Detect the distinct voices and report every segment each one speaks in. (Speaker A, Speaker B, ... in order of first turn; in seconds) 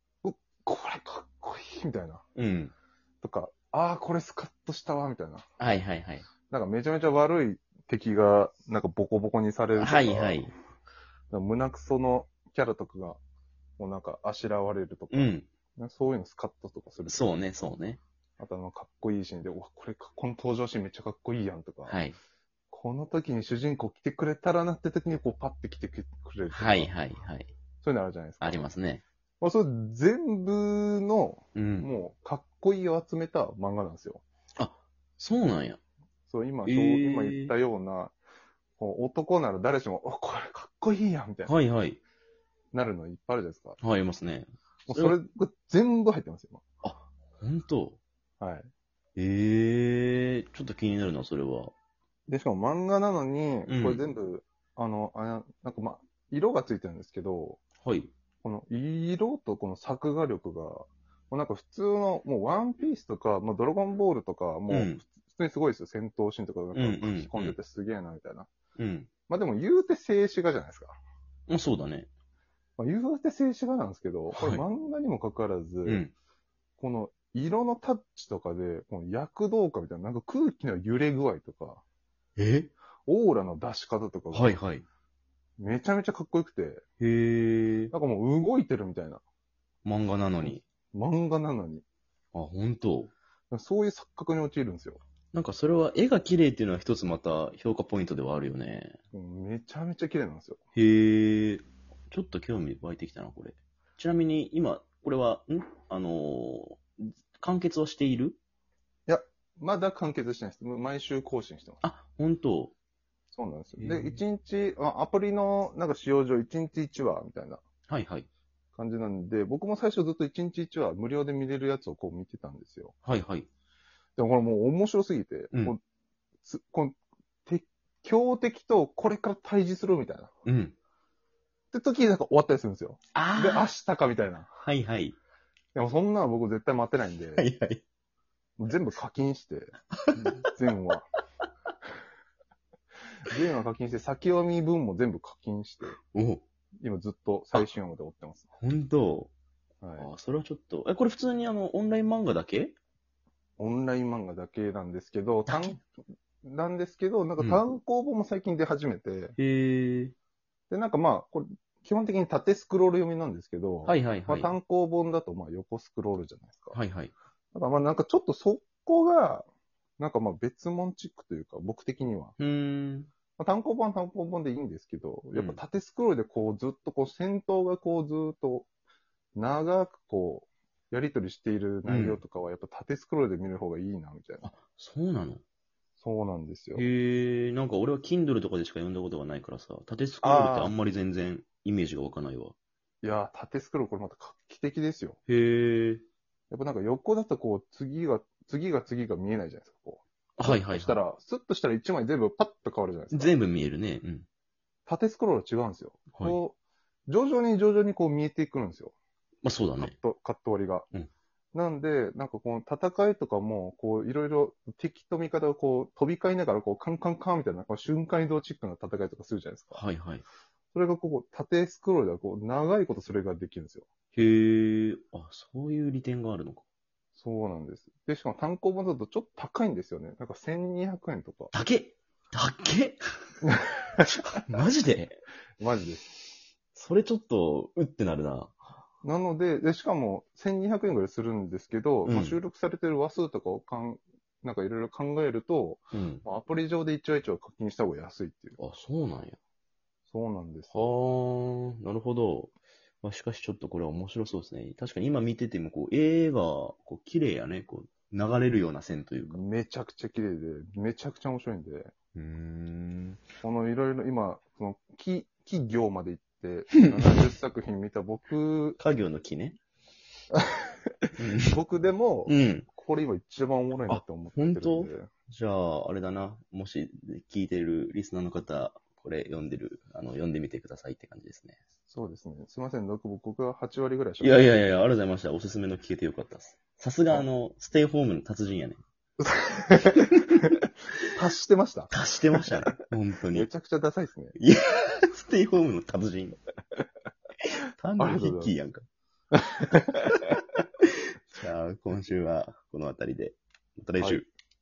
Speaker A: 0.2-2.2, 3.2-5.4, 6.5-10.4, 11.3-13.2, 13.8-17.3, 18.4-22.0, 22.7-26.9, 27.8-28.7, 29.4-34.2, 36.3-38.1, 38.8-41.5, 42.7-43.8, 44.9-46.6, 48.4-48.7, 52.3-57.6, 58.4-68.5, 69.3-71.0, 72.8-76.0, 76.8-81.8, 83.1-84.6, 85.6-86.8, 87.9-89.2, 90.4-91.8, 93.5-95.0, 99.1-100.6, 109.1-111.8, 113.3-117.6, 118.8-122.9, 124.2-125.8, 126.4-130.3, 131.7-134.5, 135.7-137.4, 138.6-141.1, 143.2-145.9, 146.8-148.5, 149.8-150.1, 153.6-155.9, 156.4-159.3, 160.7-166.8, 167.5-169.5, 170.0-172.3, 173.4-178.7, 179.3-184.5, 186.0-186.8, 190.2-190.7, 193.0-195.2, 196.5-203.3, 204.9-206.6, 207.1-208.9, 209.8-210.9, 211.5-219.8, 220.7-223.8, 227.2-231.5, 233.4-234.1, 235.6-236.2, 239.0-248.6, 250.1-250.8, 259.3-261.9, 263.4-268.8, 270.3-275.1, 281.9-284.4, 289.2-290.5, 291.1-291.9, 293.3-294.4, 298.0-298.6, 299.3-300.4, 304.0-304.2
Speaker B: 2.4-2.7, 5.6-6.3, 9.8-10.5, 15.1-15.5, 17.1-18.0, 21.9-22.2, 26.5-27.5, 28.4-29.0, 31.5-31.9, 34.6-35.8, 36.6-37.5, 41.5-42.0, 43.8-45.1, 46.8-48.0, 49.1-51.7, 53.7-54.0, 57.8-58.1, 64.7-65.0, 66.7-67.6, 68.8-69.1, 71.5-72.1, 74.3-74.6, 75.8-76.1, 82.4-82.7, 84.3-84.8, 87.0-87.9, 89.8-90.6, 92.3-93.1, 95.3-99.0, 100.7-108.4, 111.8-112.7, 113.8-114.2, 117.9-118.3, 123.0-123.5, 130.4-130.8, 133.1-133.7, 134.6-135.2, 137.4-137.8, 146.1-146.4, 148.6-149.3, 150.0-152.8, 155.5-155.8, 159.4-160.1, 163.8-164.5, 166.7-167.1, 172.4-173.1, 175.3-175.6, 181.8-182.2, 184.4-185.4, 186.7-192.5, 195.3-196.0, 200.4-201.0, 203.1-204.2, 209.4-209.9, 219.7-220.2, 224.1-226.6, 231.5-233.0, 234.3-235.2, 236.7-238.5, 242.0-242.4, 245.9-246.2, 248.6-249.4, 250.7-259.4, 262.1-263.3, 266.7-267.2, 268.8-269.6, 271.2-271.6, 272.2-272.7, 273.9-281.6, 284.2-288.8, 291.9-293.5, 294.4-296.4, 297.8-298.8, 301.3-304.3